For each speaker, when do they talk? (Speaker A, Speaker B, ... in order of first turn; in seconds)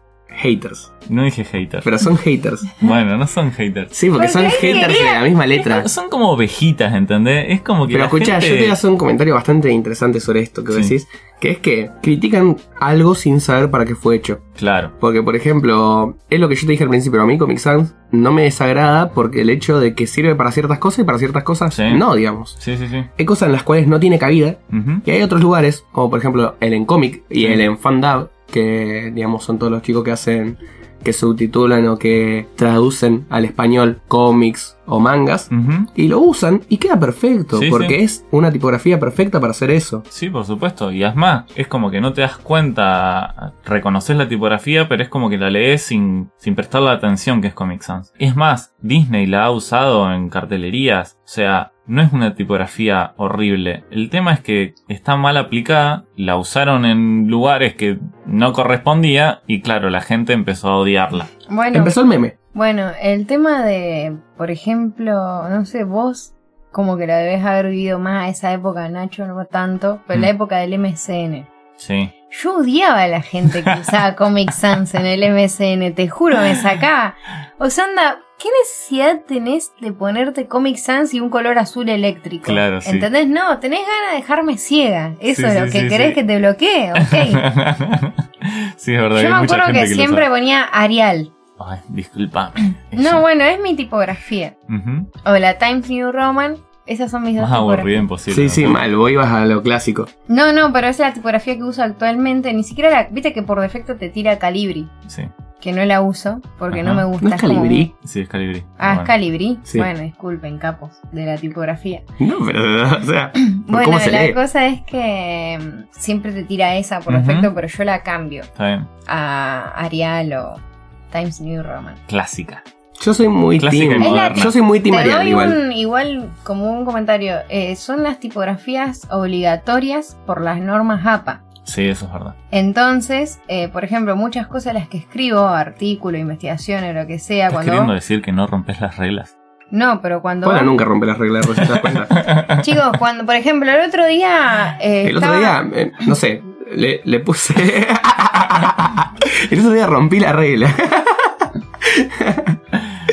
Speaker A: 0.3-0.9, 1.8-2.7, 3.9-5.9, 7.9-14.4, 15.0-22.6, 23.2-40.0, 61.7-62.3, 98.3-100.1, 107.2-107.9, 112.2-114.4, 123.0-125.6, 140.4-142.2, 145.0-152.6
Speaker B: 1.1-1.9, 2.8-3.9, 5.6-8.8, 14.6-14.9, 21.7-22.0, 22.6-23.1, 24.7-25.0, 35.5-35.9, 37.5-38.0, 40.1-61.3, 71.8-72.1, 82.4-83.1, 85.3-86.2, 87.0-90.2, 91.6-93.2, 94.7-95.1, 97.4-98.8, 106.7-107.1, 108.0-109.1, 117.1-117.5, 118.5-118.9, 122.1-122.6, 123.6-124.5, 131.6-132.3, 137.5-139.3, 141.6-142.6
Speaker C: 4.1-5.2, 61.5-61.9, 62.5-71.5, 72.3-87.4, 89.1-91.3, 92.9-94.5, 95.2-97.9, 100.3-104.9, 105.6-107.9, 108.8-112.0, 113.4-118.5, 119.0-122.0, 124.0-131.4, 132.5-137.9, 139.7-140.7, 142.6-145.6